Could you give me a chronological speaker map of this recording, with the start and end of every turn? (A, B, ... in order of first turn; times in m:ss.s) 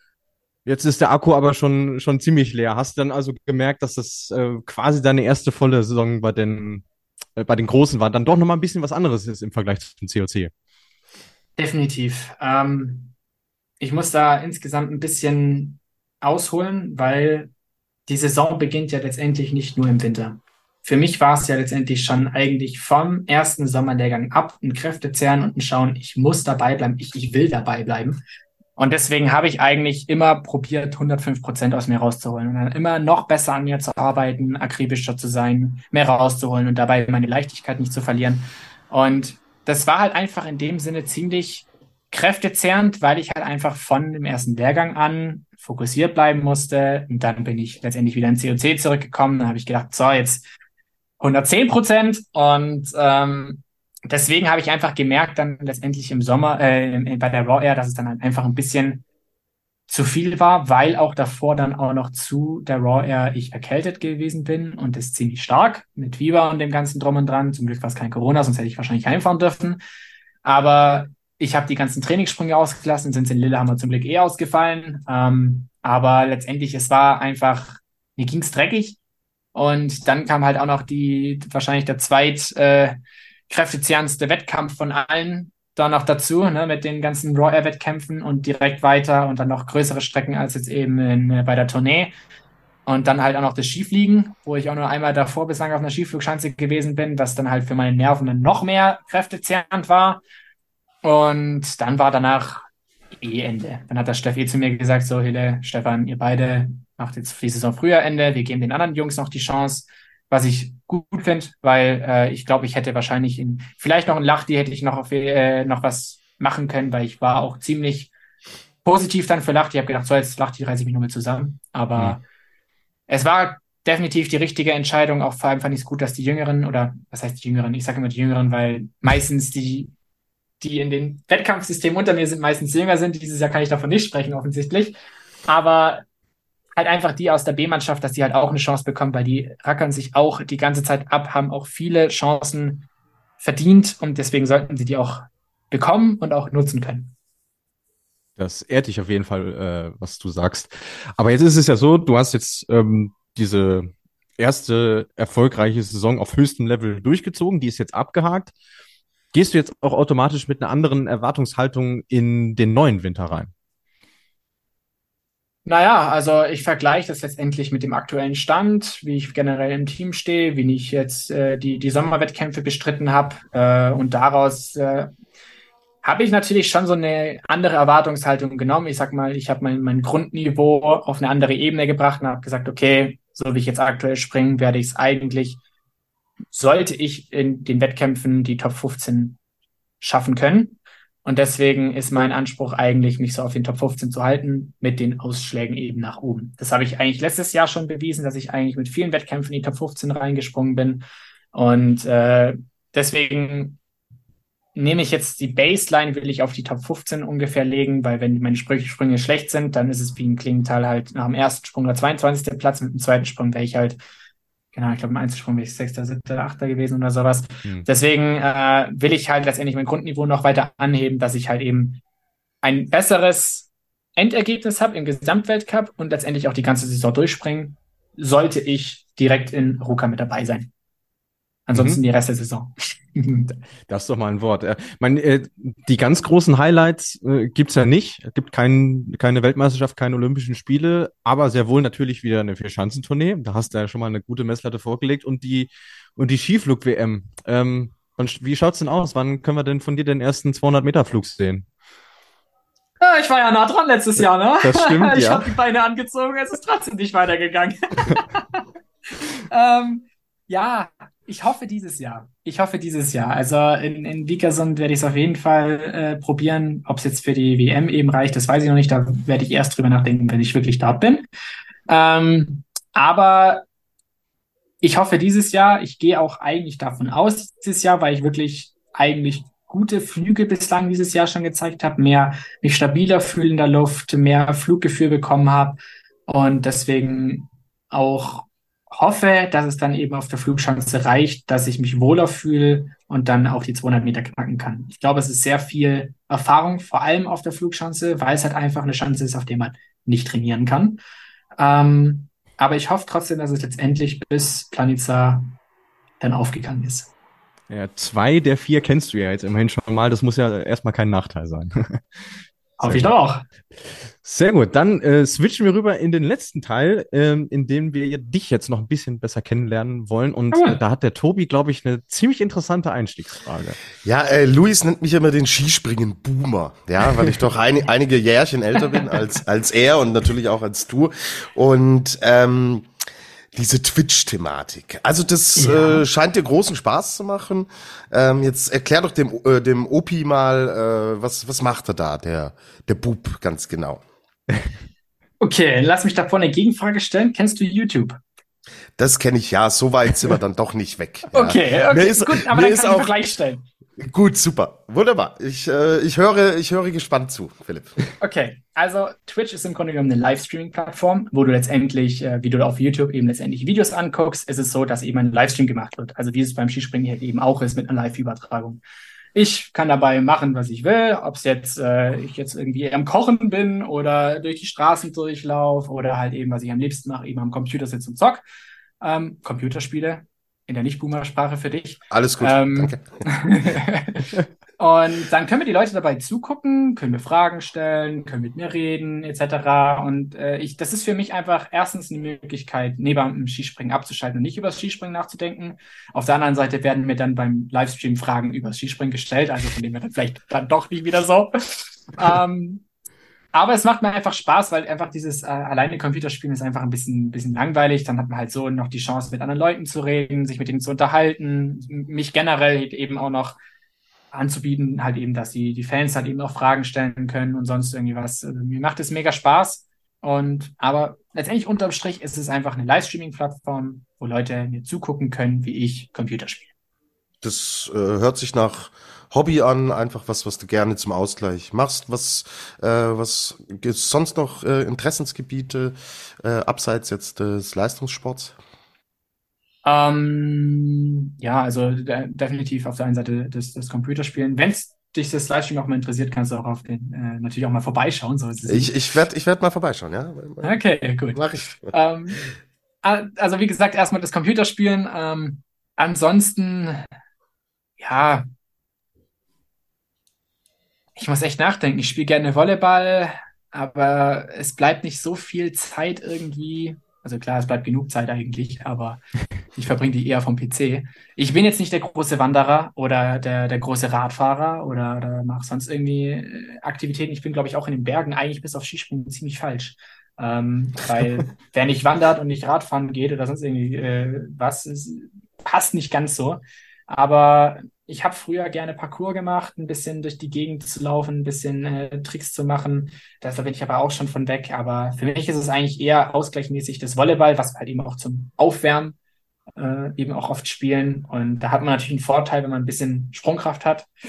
0:00.6-0:06.8 A
0:07.4-0:10.5 A
0:11.6-0:13.1 B
0:13.8-0:17.5 B
0:18.1-0:28.2 B
0:28.8-0:50.4 B
0:51.2-0:59.0 B
0:59.9-1:09.8 B
1:10.4-1:19.0 B
1:19.5-1:23.0 B
1:23.5-1:32.1 B
1:32.9-1:40.2 B
1:41.0-1:42.7 B
1:43.2-1:58.1 B
1:58.8-2:02.2 B
2:03.1-2:09.9 B
2:10.6-2:14.9 B
2:15.5-2:16.0 B
2:16.8-2:22.8 B
2:23.4-2:27.1 B
2:28.4-2:38.5 A
2:39.3-2:43.5 A
2:45.6-2:55.1 B
2:56.0-3:05.6 B
3:06.5-3:09.4 B
3:10.0-3:23.8 B
3:24.7-3:34.0 B
3:34.7-3:42.0 B
3:42.6-3:50.7 B
3:51.7-3:53.6 B
3:51.7-3:52.0 A
3:53.9-4:11.6 A
4:13.0-4:18.6 B
4:14.6-4:15.5 A
4:19.5-4:31.2 B
4:31.9-4:33.6 B
4:34.8-5:01.0 B
5:01.6-5:05.5 B
5:06.2-5:07.1 B
5:07.7-5:12.0 A
5:12.8-5:13.4 B
5:12.8-5:13.1 A
5:14.2-5:23.8 A
5:20.5-5:20.8 B
5:24.0-5:32.9 C
5:33.5-5:44.0 C
5:35.6-5:36.0 B
5:45.4-5:48.2 B
5:49.0-5:53.1 C
5:51.3-5:53.6 B
5:54.0-5:58.0 C
5:58.2-6:08.8 B
6:09.3-6:18.4 B
6:19.0-6:42.8 B
6:22.1-6:23.2 C
6:43.5-6:53.6 B
6:54.3-7:06.7 B
7:07.4-7:18.6 C
7:19.8-7:28.9 B
7:28.7-7:30.8 C
7:30.6-7:32.4 B
7:31.3-7:31.9 C
7:33.0-7:37.0 B
7:38.0-7:38.4 B
7:41.2-7:49.2 B
7:49.7-8:19.2 B
8:19.8-8:24.1 B